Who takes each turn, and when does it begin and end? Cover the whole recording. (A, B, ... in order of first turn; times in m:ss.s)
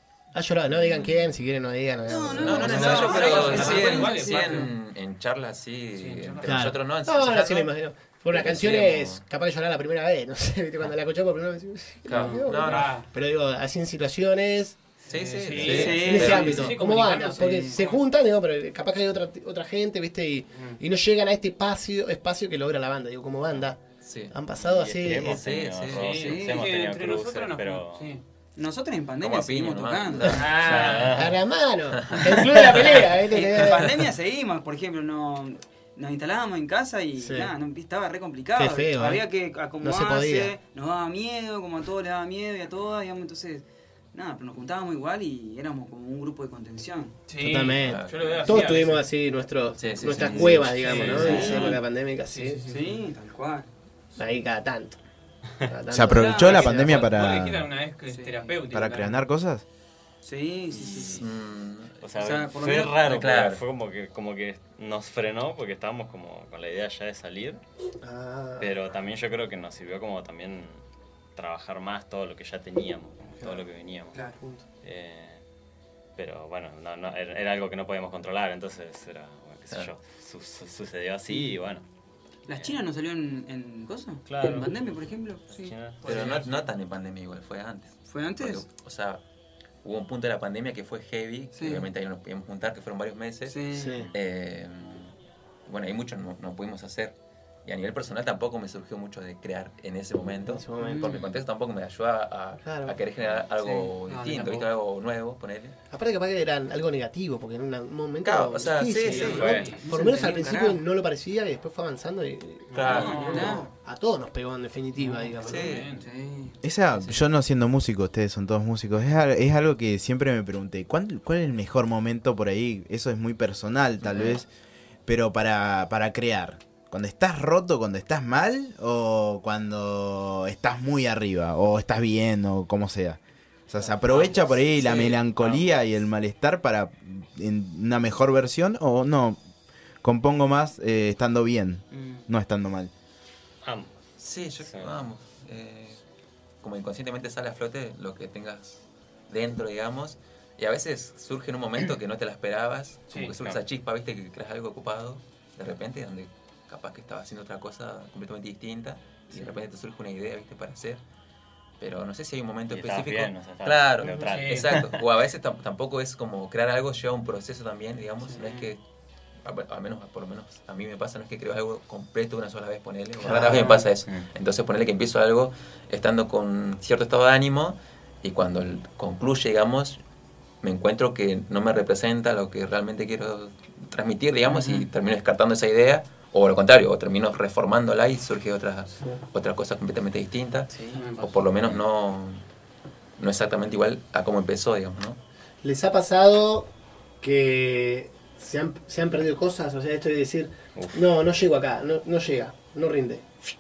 0:00.3-0:03.2 A
0:02.1-0:04.7 B
0:02.4-0:07.7 C
0:02.6-0:04.7 D
0:05.9-0:06.7 D
0:06.4-0:14.8 A
0:08.3-0:09.2 C
0:12.1-0:13.0 C
0:12.1-0:13.1 D
0:15.1-0:18.0 D
0:15.1-0:16.6 C
0:15.6-0:23.8 A
0:15.6-0:16.8 B
0:24.0-0:24.3 C
0:24.3-0:25.4 A
0:24.6-0:28.2 E
0:25.2-0:26.2 C
0:25.9-0:28.2 D
0:26.1-0:26.6 B
0:28.6-0:30.5 B
0:29.2-0:31.0 C
0:30.3-0:31.2 D
0:30.5-0:31.4 E
0:31.1-0:33.8 A
0:31.9-0:32.4 C
0:33.3-0:47.2 B
0:37.2-0:37.5 A
0:38.6-0:39.3 A
0:39.8-0:40.5 A
0:47.3-0:49.1 D
0:47.4-0:52.6 A
0:47.8-0:48.8 C
0:49.8-0:51.8 C
0:50.6-0:53.1 D
0:51.0-0:51.8 B
0:52.7-0:53.7 B
0:54.2-0:55.0 A
0:55.6-0:57.1 A
0:55.9-0:57.7 F
0:56.1-0:59.3 D
0:58.1-0:58.6 B
0:58.7-0:59.6 F
1:00.2-1:01.2 B
1:00.8-1:01.2 E
1:00.8-1:02.0 C
1:02.0-1:07.6 E
1:02.2-1:03.0 B
1:03.0-1:03.6 C
1:08.0-1:08.7 A
1:08.6-1:10.8 E
1:11.4-1:14.2 E
1:13.4-1:14.6 A
1:14.8-1:15.4 E
1:16.2-1:21.9 E
1:22.5-1:25.9 B
1:22.5-1:22.8 E
1:24.3-1:26.2 E
1:26.0-1:29.2 C
1:26.0-1:26.6 D
1:28.0-1:28.7 B
1:29.8-1:33.6 C
1:31.5-1:31.9 B
1:33.5-1:33.9 B
1:33.7-1:34.1 A
1:33.8-1:34.2 E
1:34.1-1:35.1 C
1:35.6-1:45.8 C
1:40.5-1:41.1 A
1:40.8-1:41.4 B
1:42.6-1:43.0 A
1:43.6-1:44.7 D
1:45.9-1:52.7 A
1:48.2-1:49.7 C
1:48.9-1:50.8 B
1:49.0-1:49.9 D
1:49.4-1:49.8 E
1:52.7-1:53.7 D
1:52.7-1:53.6 C
1:52.9-1:53.7 B
1:53.7-1:55.7 A
1:55.0-1:56.1 D
1:55.4-1:56.6 B
1:55.6-1:55.8 C
1:56.6-2:04.5 F
1:56.9-1:57.3 C
2:05.1-2:19.4 F
2:13.8-2:15.2 B
2:15.4-2:15.7 E
2:20.0-2:22.9 F
2:21.9-2:22.2 B
2:23.6-2:24.0 E
2:24.2-2:26.0 C
2:24.6-2:25.1 E
2:26.6-2:41.0 C
2:33.1-2:33.4 D
2:41.8-2:48.8 C
2:42.7-2:45.0 E
2:44.2-2:44.7 D
2:48.2-2:48.6 D
2:49.4-3:00.0 C
2:53.2-2:53.8 A
3:00.6-3:12.4 C
3:04.5-3:04.8 D
3:10.8-3:11.0 B
3:10.9-3:11.6 D
3:13.2-3:15.2 C
3:15.6-3:16.7 A
3:17.2-3:23.4 A
3:20.8-3:21.1 E